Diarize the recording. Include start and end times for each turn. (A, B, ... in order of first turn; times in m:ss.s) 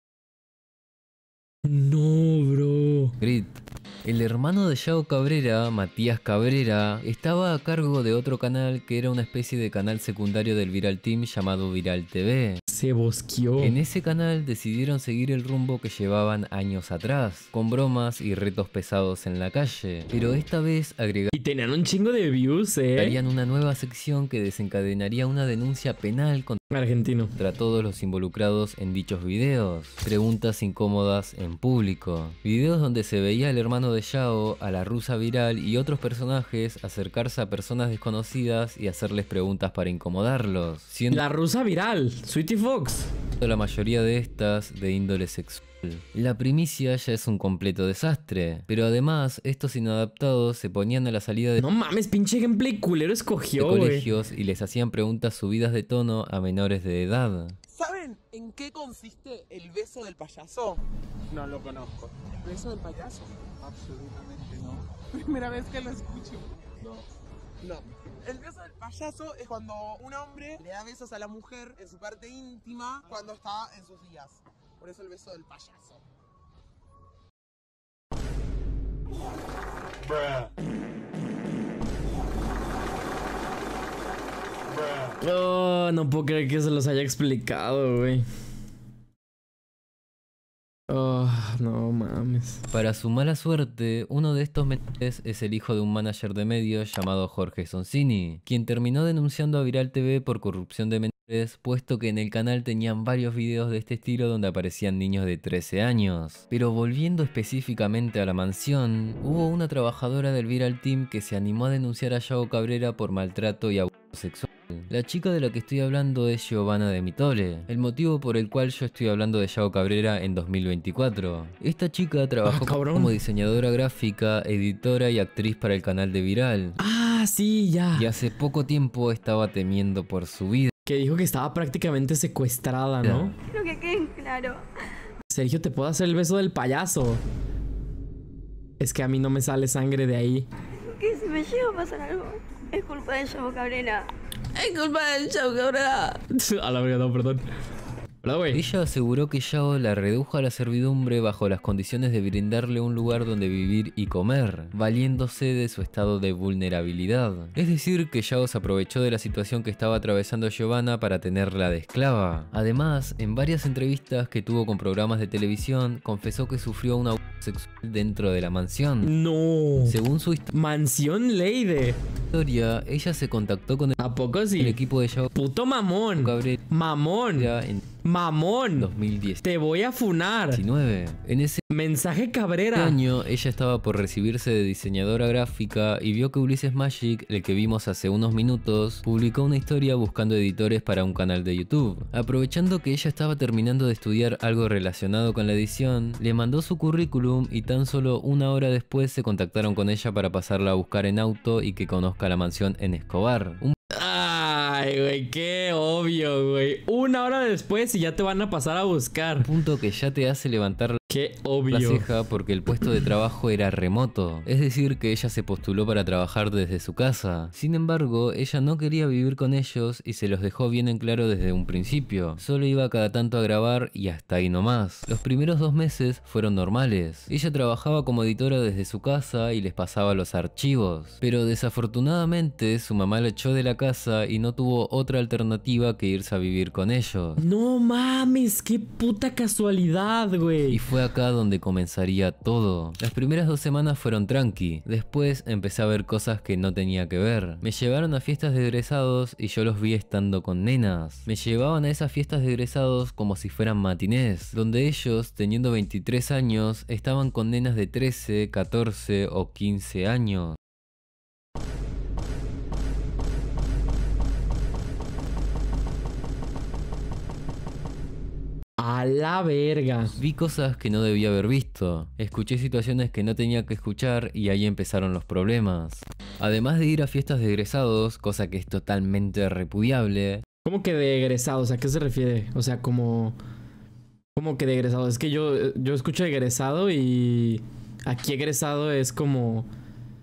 0:01.6-0:03.1 A
0:03.2-0:12.6 B
0:12.7-0:13.8 A
0:13.6-0:21.3 B
0:21.3-0:23.2 A
0:23.0-0:26.6 B
0:26.7-0:27.3 A
0:27.4-0:41.2 B
0:41.1-0:43.1 A
0:43.4-0:51.6 B
0:51.6-0:54.1 A
0:53.6-0:57.6 B
0:57.7-1:07.0 C
1:07.6-1:16.0 C
1:25.2-1:28.2 A
1:30.9-1:32.6 A
1:32.7-2:06.8 B
2:02.4-2:03.2 A
2:06.8-2:08.1 A
2:07.9-2:10.7 B
2:10.8-2:13.3 A
2:13.0-2:13.4 B
2:13.5-2:14.6 D
2:15.3-2:17.2 A
2:18.8-2:20.5 A
2:20.8-2:24.1 D
2:24.5-2:27.4 A
2:28.2-2:28.6 A
2:28.5-2:49.1 B
2:49.0-2:50.0 A
2:49.8-2:50.5 B
2:50.5-2:52.0 A
2:52.3-2:54.0 B
2:54.0-2:54.8 A
2:54.6-2:55.3 B
2:55.3-2:57.5 A
2:56.2-2:56.6 B
2:57.4-2:57.8 B
2:58.0-2:58.9 A
2:58.8-2:59.4 B
2:59.4-3:00.6 A
3:00.5-3:01.6 B
3:01.7-3:03.0 A
3:02.7-3:23.7 B
3:23.9-3:29.5 A
3:29.4-3:31.0 B
3:31.1-3:32.1 A
3:31.7-3:57.4 B
3:57.4-4:00.8 A
4:00.7-4:20.6 B
4:28.8-4:30.2 A
4:30.2-4:40.4 B
4:40.6-4:43.4 A
4:44.4-4:49.7 A